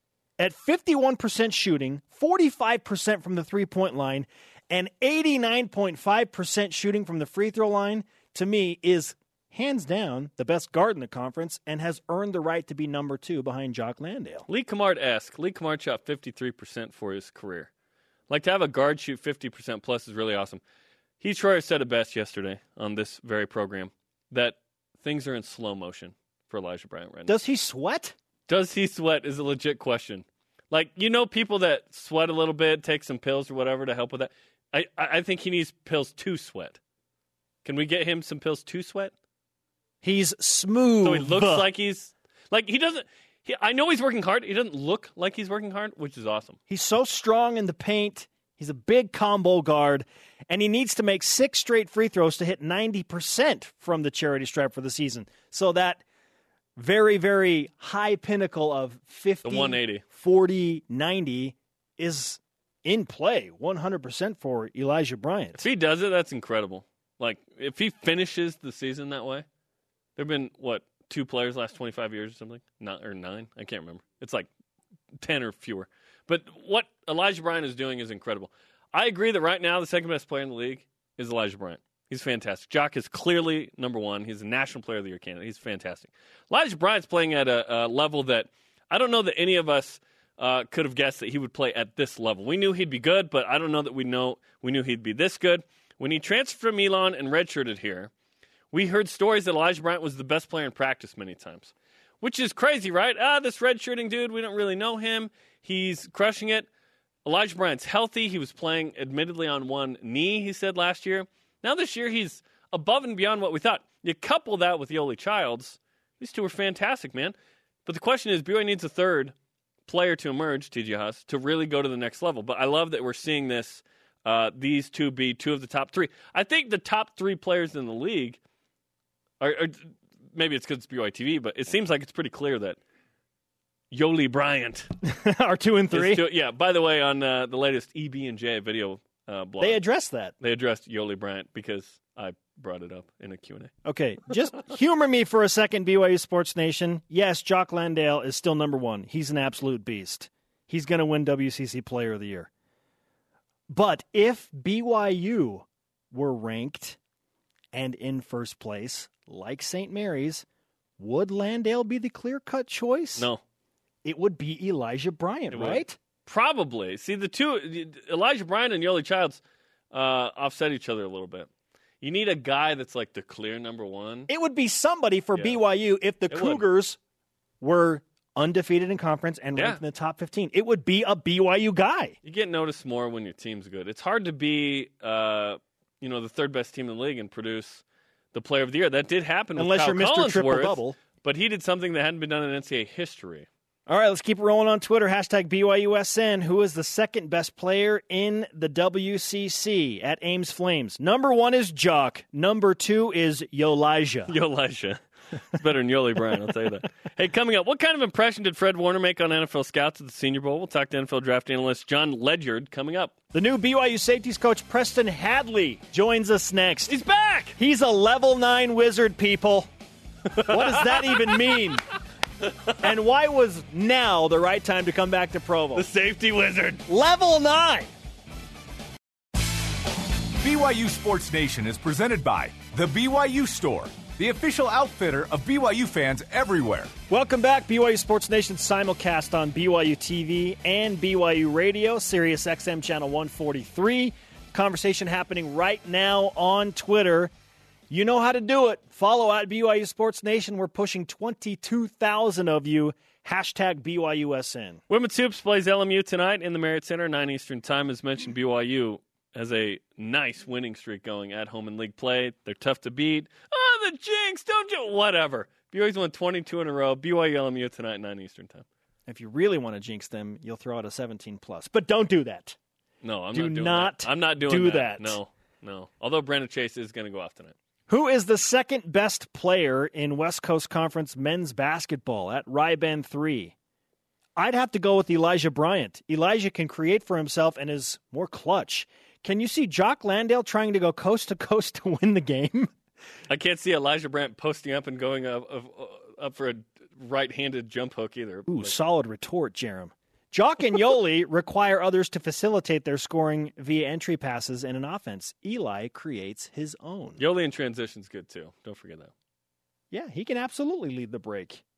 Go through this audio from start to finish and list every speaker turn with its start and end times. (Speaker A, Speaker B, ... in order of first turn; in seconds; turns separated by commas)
Speaker A: 0.4-14.5, Speaker B: 14.5-17.7, Speaker B: 18.3-20.6, Speaker B: 21.2-27.3, Speaker A: 27.3-28.1, Speaker B: 28.5-36.8, Speaker B: 37.6-39.1, Speaker A: 40.0-41.7, Speaker B: 41.0-46.6, Speaker A: 46.7-56.0, Speaker A: 56.8-65.6, Speaker B: 59.4-60.0, Speaker B: 65.6-69.4, Speaker B: 70.2-74.5, Speaker B: 75.2-98.1, Speaker B: 98.7-106.7, Speaker B: 107.2-117.3, Speaker B: 117.8-119.3, Speaker B: 119.9-128.4, Speaker B: 129.4-132.8, Speaker B: 133.9-134.9, Speaker A: 135.0-136.2, Speaker B: 135.9-139.8, Speaker A: 139.6-140.3, Speaker B: 140.4-143.7, Speaker A: 143.8-152.5, Speaker A: 153.7-157.0, Speaker A: 157.7-160.4, Speaker A: 161.0-163.3, Speaker A: 164.0-165.9, Speaker B: 165.5-169.4, Speaker B: 169.9-171.5, Speaker B: 172.0-174.3, Speaker A: 174.3-177.0, Speaker B: 175.3-175.6, Speaker B: 176.3-176.6, Speaker A: 177.6-182.2, Speaker B: 182.2-193.5, Speaker A: 189.6-191.0, Speaker A: 193.9-204.3, Speaker B: 204.3-205.0, Speaker B: 205.5-213.1, Speaker A: 213.3-216.9, Speaker B: 216.9-217.5, Speaker A: 217.6-219.7, Speaker B: 220.3-221.4, Speaker A: 220.4-221.9, Speaker A: 222.8-225.8, Speaker B: 225.7-226.8, Speaker A: 226.9-227.9, Speaker C: 230.4-236.9, Speaker A: 237.1-247.3, Speaker A: 247.9-254.8, Speaker B: 254.9-268.6, Speaker A: 269.1-272.6, Speaker B: 273.0-277.5, Speaker A: 273.3-275.2, Speaker A: 277.9-283.5, Speaker A: 284.4-292.7, Speaker B: 293.3-298.8, Speaker A: 298.5-307.2, Speaker B: 307.2-309.1, Speaker A: 309.9-311.6